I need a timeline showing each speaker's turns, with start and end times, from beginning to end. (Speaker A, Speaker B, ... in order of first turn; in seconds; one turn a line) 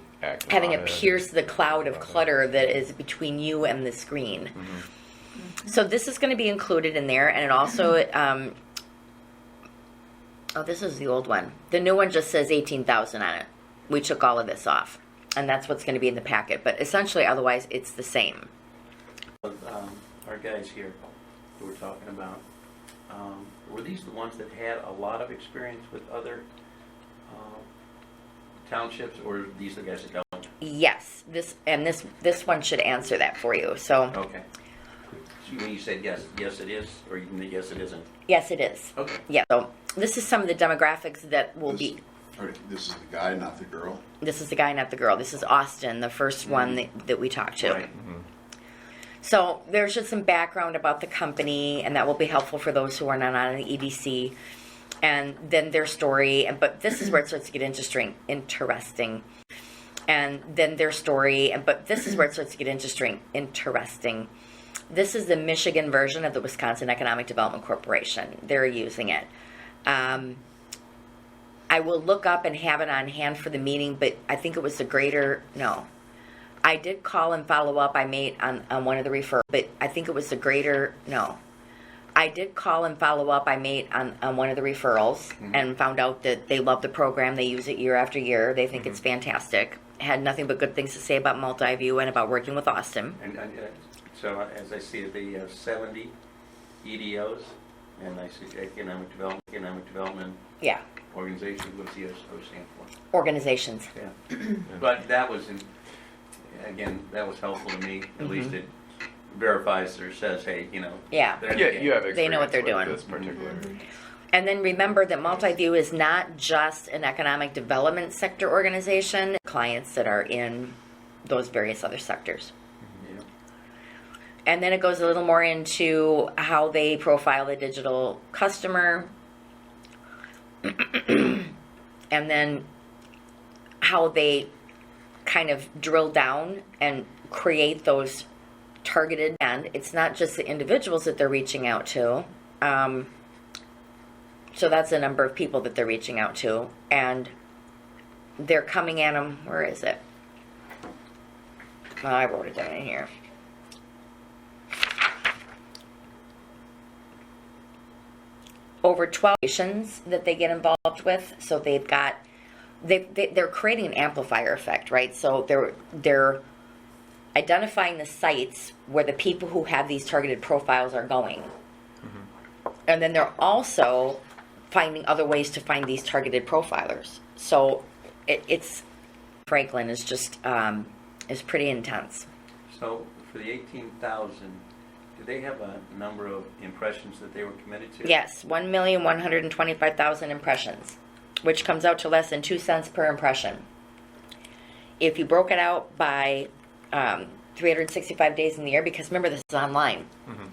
Speaker A: 0.2-2.2
Speaker B: 0.5-4.8
Speaker B: 5.6-8.6
Speaker B: 10.5-18.5
Speaker C: 19.4-21.0
Speaker C: 21.6-22.4
Speaker C: 23.1-26.4
Speaker C: 27.2-27.7
Speaker C: 28.6-30.5
Speaker B: 30.6-34.2
Speaker C: 34.1-34.4
Speaker C: 35.4-38.1
Speaker B: 38.3-42.0
Speaker C: 39.0-39.2
Speaker D: 41.7-44.0
Speaker B: 44.2-47.9
Speaker C: 46.4-46.8
Speaker C: 47.6-47.9
Speaker B: 49.2-54.3
Speaker B: 55.0-59.2
Speaker B: 60.1-64.3
Speaker B: 64.9-69.3
Speaker B: 69.8-70.4
Speaker B: 71.7-75.9
Speaker B: 76.6-81.4
Speaker B: 82.1-93.2
Speaker C: 93.2-96.1
Speaker C: 96.8-100.4
Speaker C: 101.1-102.9
Speaker B: 103.1-103.9
Speaker C: 103.9-105.7
Speaker C: 106.4-108.7
Speaker B: 108.2-108.5
Speaker C: 109.3-112.1
Speaker B: 111.1-111.5
Speaker A: 111.5-113.8
Speaker B: 112.1-113.0
Speaker C: 113.0-113.4
Speaker B: 114.3-122.5
Speaker C: 123.0-123.2
Speaker B: 124.5-129.1
Speaker B: 130.6-131.5
Speaker B: 132.1-132.7
Speaker B: 133.8-134.5
Speaker B: 135.2-138.3
Speaker B: 138.8-143.1
Speaker B: 144.5-147.3
Speaker B: 148.4-150.0
Speaker B: 152.0-153.1
Speaker B: 158.8-162.2
Speaker B: 162.8-166.4
Speaker B: 167.3-171.5
Speaker B: 172.9-178.8
Speaker B: 179.5-182.3
Speaker C: 182.7-184.6
Speaker C: 185.2-188.2
Speaker B: 188.0-193.6
Speaker B: 195.0-200.1